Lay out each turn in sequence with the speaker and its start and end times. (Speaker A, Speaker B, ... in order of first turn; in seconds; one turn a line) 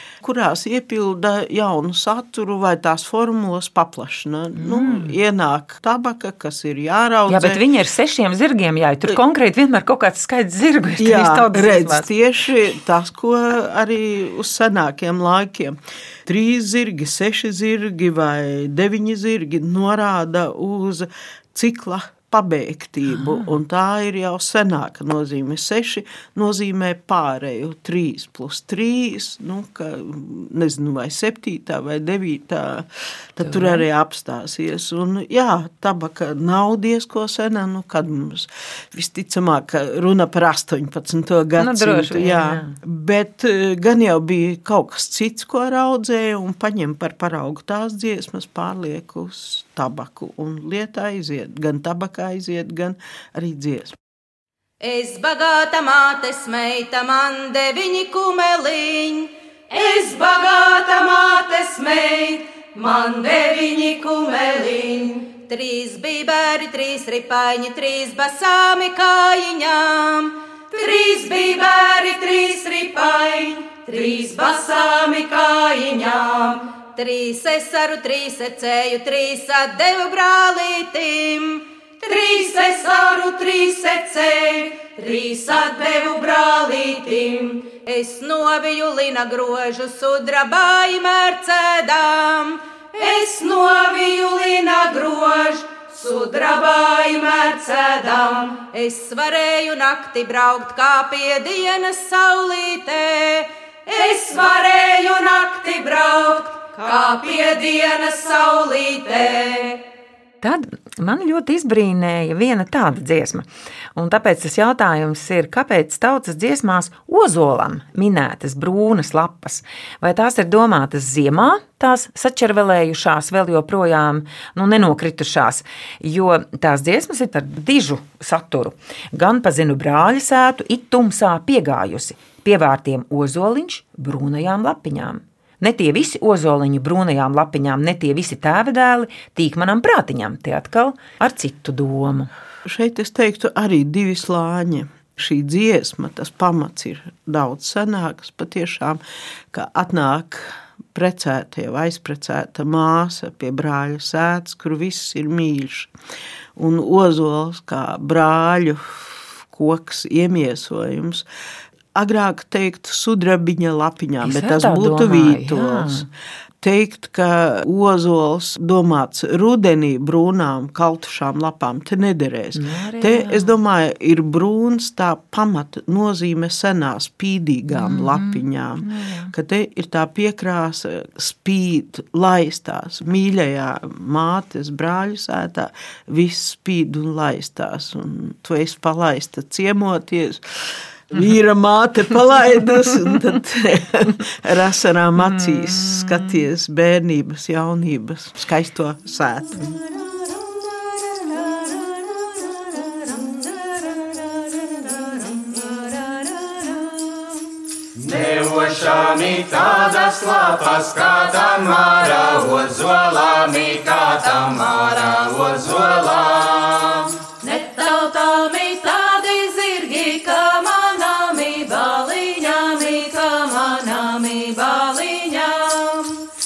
Speaker A: 0.2-7.6
Speaker B: 4.6-5.1
Speaker B: 7.3-12.1
Speaker A: 11.0-54.0
Speaker B: 33.5-33.8
Speaker B: 41.6-42.8
Speaker C: 54.8-109.8
Speaker B: 110.4-142.3
Speaker A: 142.6-149.0
Speaker A: 149.5-155.9
Speaker A: 156.6-161.2
Speaker A: 161.9-166.1
Speaker B: 164.2-166.1
Speaker A: 166.6-199.8
Speaker B: 172.5-173.5
Speaker B: 177.7-179.3
Speaker B: 195.3-196.1
Speaker C: 200.2-207.2
Speaker D: 208.0-217.1
Speaker C: 217.4-226.2